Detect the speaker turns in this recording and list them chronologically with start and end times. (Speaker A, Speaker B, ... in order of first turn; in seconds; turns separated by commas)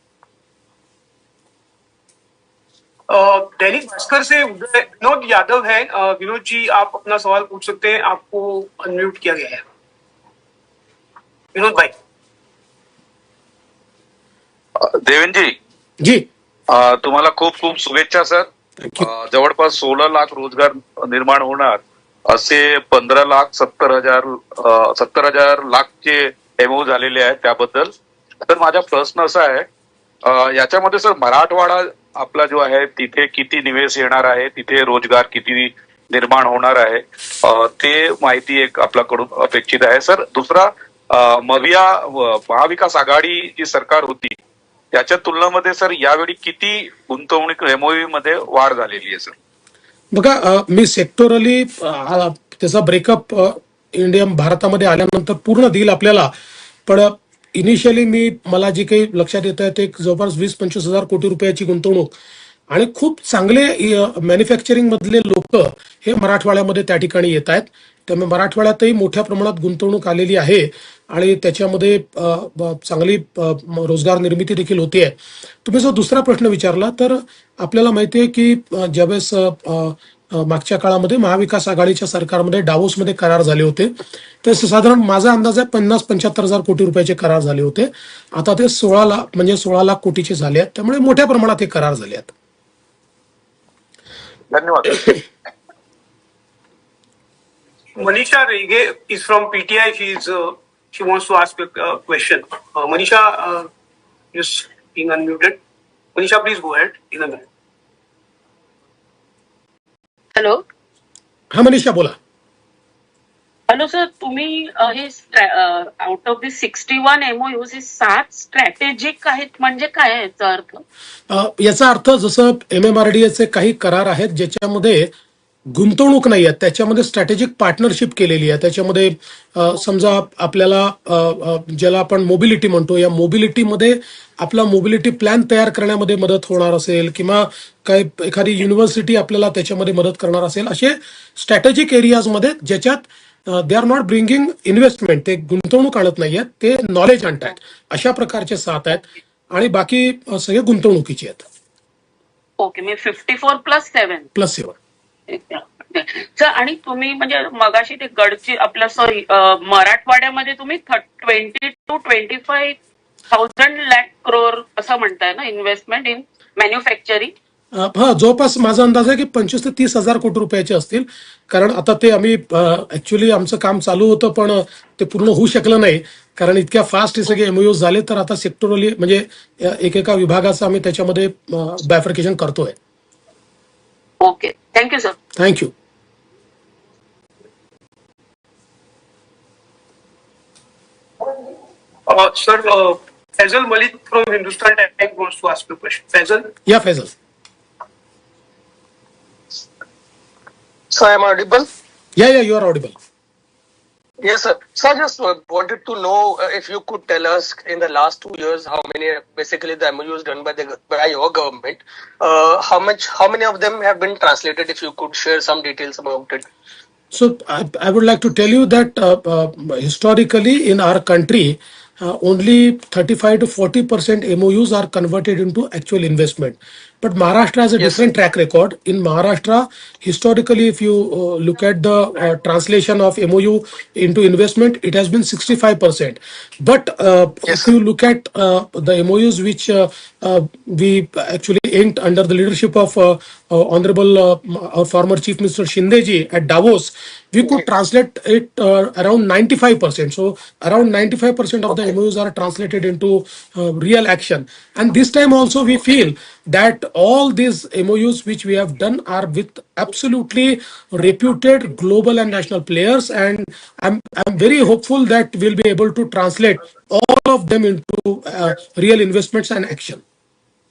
Speaker A: 3.1-9.6, Speaker A: 11.5-11.9, Speaker B: 14.8-15.6, Speaker C: 16.0-16.3, Speaker B: 16.7-27.9, Speaker C: 18.8-19.1, Speaker B: 28.4-29.7, Speaker B: 30.2-44.4, Speaker B: 44.9-49.3, Speaker C: 50.1-56.3, Speaker C: 56.9-62.1, Speaker C: 62.7-92.3, Speaker B: 94.5-95.0, Speaker A: 98.0-103.7, Speaker A: 104.3-105.6, Speaker A: 106.2-107.5, Speaker D: 110.3-110.6, Speaker C: 111.5-112.2, Speaker D: 113.7-120.8, Speaker C: 121.3-125.1, Speaker C: 125.7-151.5, Speaker D: 152.6-154.3, Speaker C: 154.3-154.8, Speaker D: 155.3-162.8, Speaker D: 163.3-167.3, Speaker C: 167.8-182.8, Speaker D: 184.2-185.2, Speaker C: 185.4-185.7, Speaker A: 192.1-196.5, Speaker C: 196.7-197.1, Speaker E: 200.9-201.7, Speaker C: 202.2-203.0, Speaker E: 204.2-216.5, Speaker C: 217.1-270.0, Speaker E: 227.8-228.1